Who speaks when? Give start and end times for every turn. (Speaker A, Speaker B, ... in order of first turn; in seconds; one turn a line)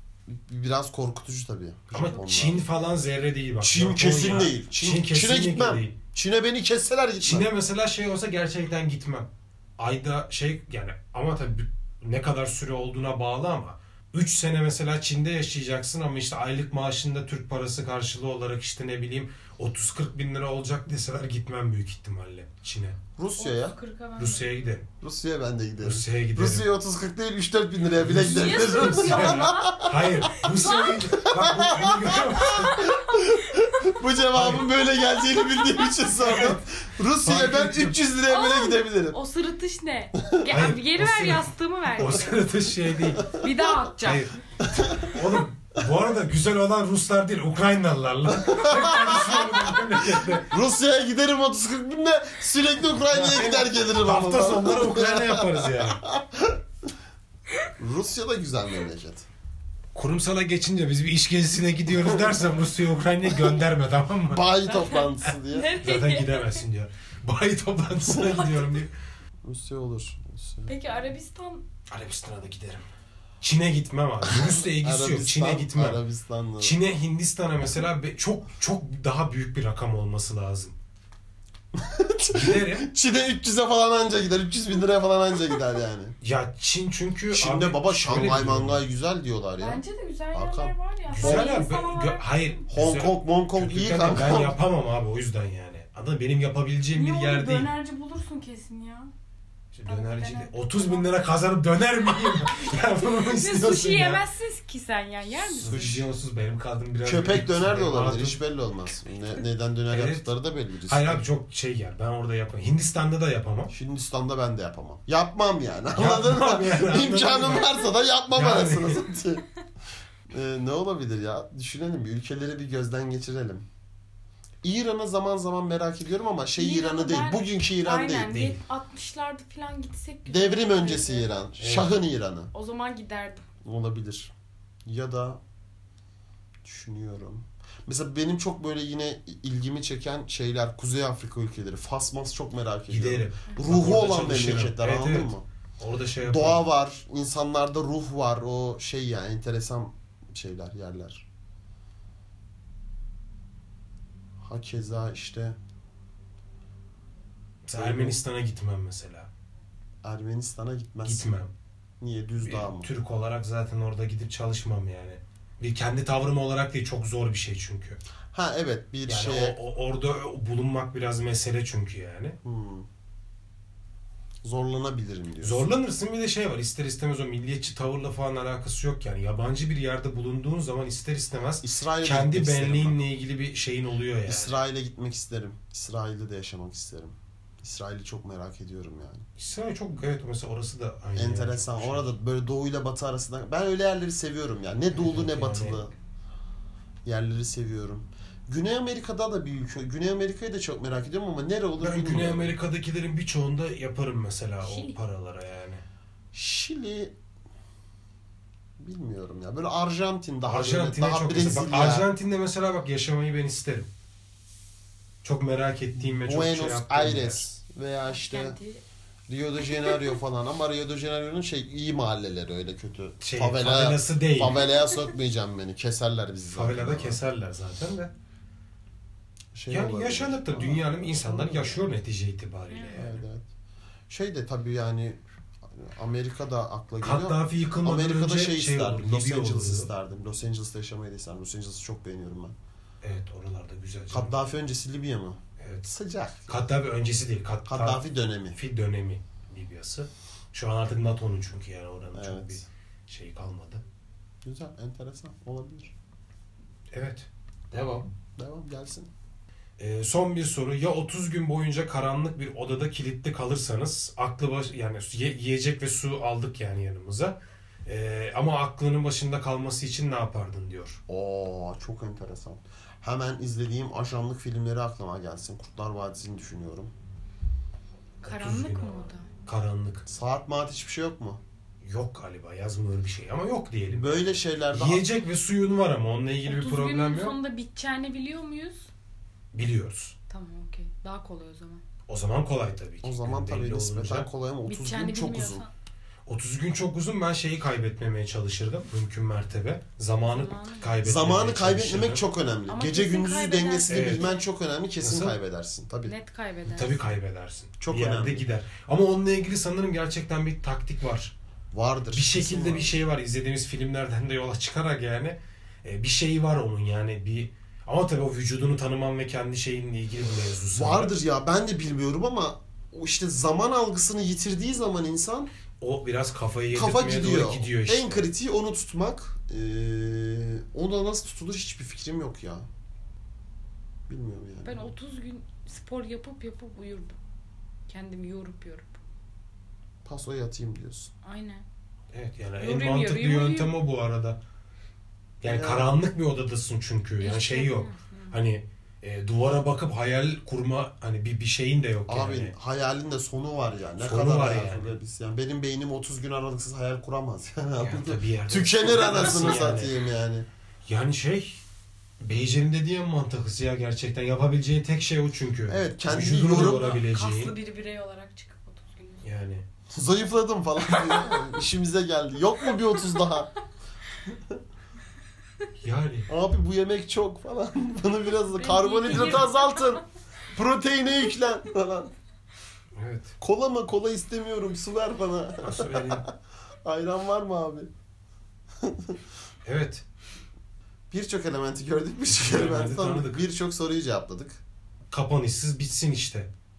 Speaker A: 0.3-2.6
Speaker B: 1.9-6.0
Speaker A: 3.6-7.5
Speaker B: 7.2-23.0
Speaker A: 23.2-23.8
Speaker C: 23.4-24.5
Speaker B: 24.2-24.9
Speaker A: 25.0-39.2
Speaker B: 25.8-26.7
Speaker B: 28.0-32.9
Speaker C: 28.2-29.8
Speaker C: 30.4-31.0
Speaker C: 32.4-33.6
Speaker B: 34.3-34.7
Speaker B: 36.2-36.6
Speaker B: 37.2-38.0
Speaker C: 38.3-42.5
Speaker B: 40.5-43.3
Speaker A: 43.2-43.5
Speaker C: 43.2-44.3
Speaker B: 44.0-44.4
Speaker A: 44.6-45.2
Speaker B: 44.9-50.5
Speaker A: 48.4-56.6
Speaker C: 49.0-49.7
Speaker B: 53.0-56.0
Speaker A: 57.8-59.3
Speaker B: 59.9-64.5
Speaker A: 61.9-62.4
Speaker A: 64.3-65.7
Speaker C: 64.7-66.6
Speaker B: 65.8-68.9
Speaker C: 68.1-68.7
Speaker A: 69.4-70.8
Speaker C: 70.7-71.7
Speaker B: 71.9-72.9
Speaker B: 73.4-76.0
Speaker A: 74.3-76.8
Speaker B: 76.6-80.8
Speaker A: 81.8-86.2
Speaker B: 82.3-82.9
Speaker B: 86.2-88.8
Speaker A: 87.3-89.8
Speaker C: 89.6-92.6
Speaker A: 90.3-91.5
Speaker B: 91.1-97.7
Speaker A: 92.7-94.6
Speaker C: 96.9-99.1
Speaker B: 99.7-104.2
Speaker C: 99.9-101.2
Speaker C: 102.3-106.0
Speaker A: 105.6-106.0
Speaker B: 105.6-108.4
Speaker A: 107.0-111.2
Speaker B: 109.9-110.2
Speaker B: 110.9-113.7
Speaker A: 113.7-119.5
Speaker B: 116.0-117.8
Speaker B: 118.3-119.0
Speaker A: 120.3-123.7
Speaker A: 124.6-128.4
Speaker C: 126.6-131.3
Speaker B: 128.3-128.6
Speaker A: 130.3-132.5
Speaker B: 131.6-131.9
Speaker C: 132.5-133.4
Speaker A: 133.6-134.3
Speaker A: 134.9-135.4
Speaker A: 136.6-145.4
Speaker B: 142.9-146.7
Speaker A: 146.2-151.2
Speaker A: 154.4-155.6
Speaker B: 157.7-159.3
Speaker A: 157.7-158.2
Speaker A: 160.0-161.3
Speaker B: 161.1-161.5
Speaker A: 162.0-162.9
Speaker B: 162.4-168.0
Speaker A: 168.3-169.6
Speaker B: 169.1-172.4
Speaker A: 172.4-172.9
Speaker A: 174.4-175.7
Speaker B: 175.4-184.6
Speaker A: 181.6-183.0
Speaker A: 184.3-189.3
Speaker B: 189.4-192.1
Speaker A: 191.2-195.9
Speaker B: 194.9-195.8
Speaker A: 197.1-202.5
Speaker B: 201.8-205.8
Speaker C: 204.6-205.0
Speaker A: 206.3-207.2
Speaker A: 208.8-212.1
Speaker B: 210.5-213.9
Speaker B: 215.2-217.4
Speaker A: 216.2-218.6
Speaker C: 218.1-218.8
Speaker A: 219.3-227.2
Speaker B: 223.2-224.7
Speaker B: 226.5-228.1
Speaker A: 229.5-231.9
Speaker B: 229.7-233.2
Speaker C: 232.7-233.0
Speaker A: 232.9-233.5
Speaker A: 234.1-242.6
Speaker B: 237.0-239.9
Speaker B: 243.0-244.3
Speaker A: 244.1-246.6
Speaker B: 245.6-245.9
Speaker B: 246.5-248.0
Speaker A: 247.7-248.6
Speaker B: 248.6-253.8
Speaker A: 252.1-252.7
Speaker A: 254.4-255.9
Speaker B: 256.9-258.1
Speaker A: 258.4-259.1
Speaker B: 259.8-271.0
Speaker A: 271.1-276.9
Speaker C: 278.2-279.3
Speaker B: 278.2-280.1
Speaker A: 280.1-281.4
Speaker B: 281.8-287.4
Speaker A: 283.9-285.1
Speaker C: 286.5-288.9
Speaker B: 289.5-290.1
Speaker C: 290.3-291.8
Speaker B: 292.1-294.3
Speaker A: 293.0-295.6
Speaker C: 294.7-295.7
Speaker B: 296.3-302.2
Speaker C: 300.2-300.9
Speaker A: 301.0-306.1
Speaker C: 302.7-304.5
Speaker B: 303.9-304.3
Speaker B: 305.0-305.4
Speaker C: 306.1-307.1
Speaker B: 306.7-311.3
Speaker A: 307.8-308.5
Speaker A: 311.7-313.0
Speaker B: 312.1-321.1
Speaker A: 320.7-325.5
Speaker B: 325.8-328.3
Speaker A: 326.7-332.7
Speaker A: 334.1-334.9
Speaker C: 334.6-337.2
Speaker C: 337.9-339.0
Speaker A: 340.1-341.1
Speaker C: 341.2-341.6
Speaker B: 342.1-344.4
Speaker C: 342.6-343.7
Speaker B: 345.4-352.5
Speaker A: 345.4-345.9
Speaker C: 347.2-348.4
Speaker A: 352.1-360.5
Speaker B: 354.0-354.9
Speaker B: 357.8-359.9
Speaker B: 360.9-361.6
Speaker B: 362.2-367.6
Speaker A: 365.7-367.0
Speaker C: 366.4-369.2
Speaker B: 369.2-369.6
Speaker A: 369.9-373.5
Speaker C: 371.1-371.4
Speaker C: 372.6-373.4
Speaker B: 375.8-376.3
Speaker A: 376.3-382.1
Speaker C: 378.5-380.0
Speaker B: 379.1-379.4
Speaker B: 382.9-383.3
Speaker A: 383.4-386.3
Speaker B: 385.6-386.2
Speaker A: 386.9-387.9
Speaker A: 388.8-389.2
Speaker B: 389.6-390.1
Speaker A: 391.1-394.6
Speaker B: 392.3-393.5
Speaker B: 395.1-396.5